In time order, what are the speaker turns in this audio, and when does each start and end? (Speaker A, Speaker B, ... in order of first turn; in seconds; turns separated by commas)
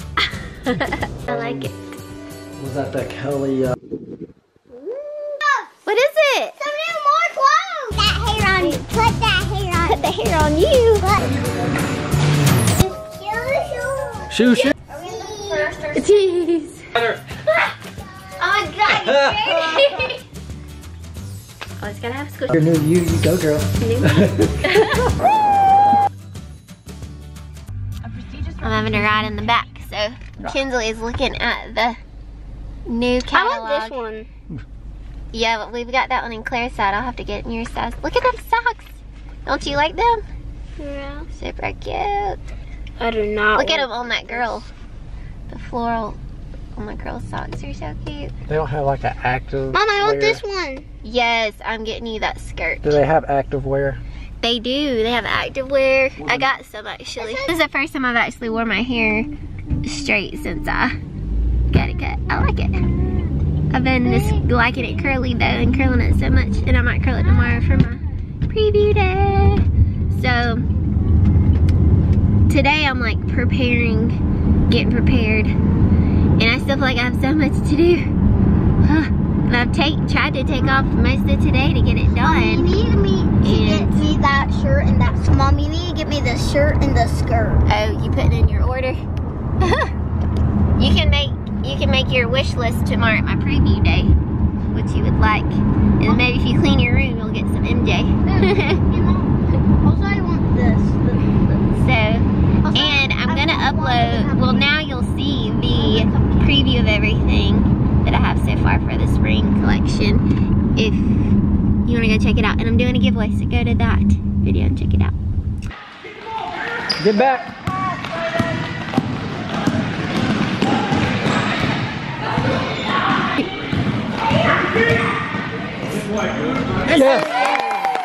Speaker A: 0.6-1.8, Speaker B: 1.3-1.7, Speaker B: 2.6-3.7, Speaker A: 4.9-5.3, Speaker C: 5.4-5.7, Speaker A: 5.8-6.6, Speaker C: 6.6-10.0, Speaker A: 9.8-11.2, Speaker C: 11.0-11.4, Speaker C: 12.8-16.0, Speaker B: 14.3-14.7, Speaker A: 15.9-16.8, Speaker A: 18.4-20.2, Speaker A: 21.8-22.6, Speaker B: 22.5-24.5, Speaker A: 23.8-25.1, Speaker A: 28.6-32.0, Speaker A: 32.9-34.0, Speaker C: 33.3-34.3, Speaker A: 35.3-40.2, Speaker C: 40.8-41.2, Speaker A: 41.3-42.4, Speaker C: 43.0-44.6, Speaker A: 43.5-44.7, Speaker A: 45.5-46.2, Speaker A: 46.8-48.3, Speaker B: 48.5-50.4, Speaker C: 49.7-50.8, Speaker A: 51.0-53.0, Speaker B: 52.8-54.0, Speaker A: 54.4-59.3, Speaker B: 56.2-56.5, Speaker C: 57.2-57.5, Speaker A: 59.8-60.9, Speaker A: 61.7-62.9, Speaker A: 63.7-70.6, Speaker C: 64.1-64.3, Speaker A: 72.5-75.5, Speaker A: 76.4-78.0, Speaker A: 78.8-82.7, Speaker C: 82.2-87.6, Speaker A: 83.4-84.1, Speaker A: 87.7-89.0, Speaker A: 89.6-89.9, Speaker A: 90.8-94.1, Speaker A: 94.7-98.8, Speaker C: 98.4-99.3, Speaker C: 99.8-101.6, Speaker A: 101.7-110.2, Speaker C: 102.7-104.7, Speaker C: 105.7-106.7, Speaker A: 110.8-115.2, Speaker B: 117.0-117.5, Speaker B: 126.9-127.4